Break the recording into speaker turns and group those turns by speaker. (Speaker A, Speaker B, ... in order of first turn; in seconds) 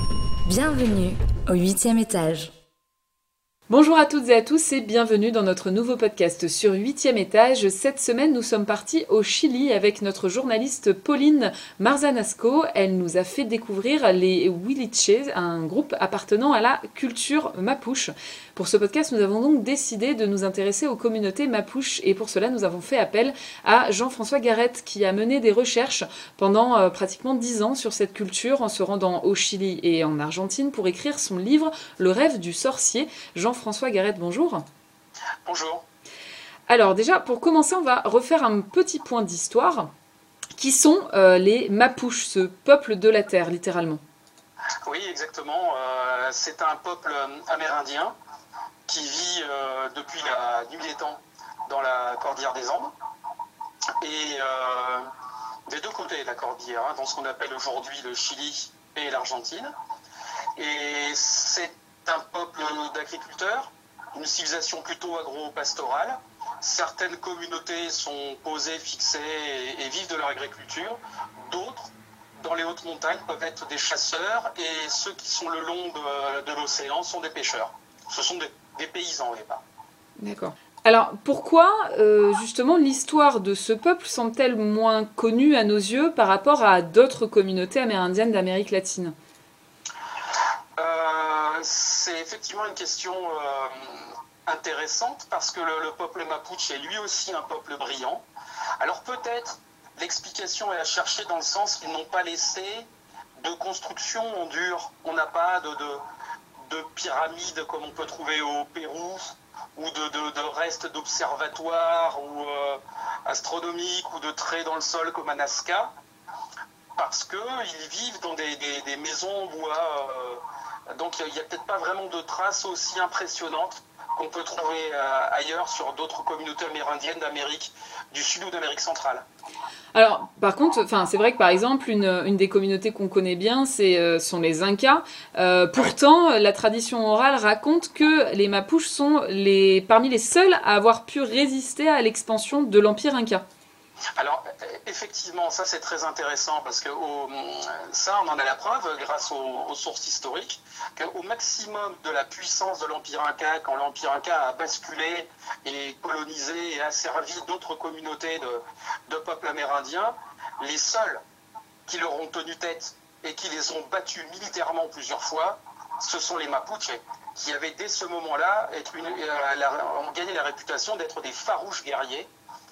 Speaker A: 0.5-2.5
Speaker B: 3.7-34.6, 36.7-39.9, 40.5-44.0, 80.2-89.1, 129.9-143.4
Speaker C: 35.5-35.8, 44.9-48.1, 48.9-52.9, 54.0-55.1, 55.7-59.7, 60.6-79.6, 90.8-98.2, 98.8-102.9, 103.4-106.0, 106.7-115.9, 117.0-120.4, 120.9-129.2, 144.2-161.2, 161.9-172.3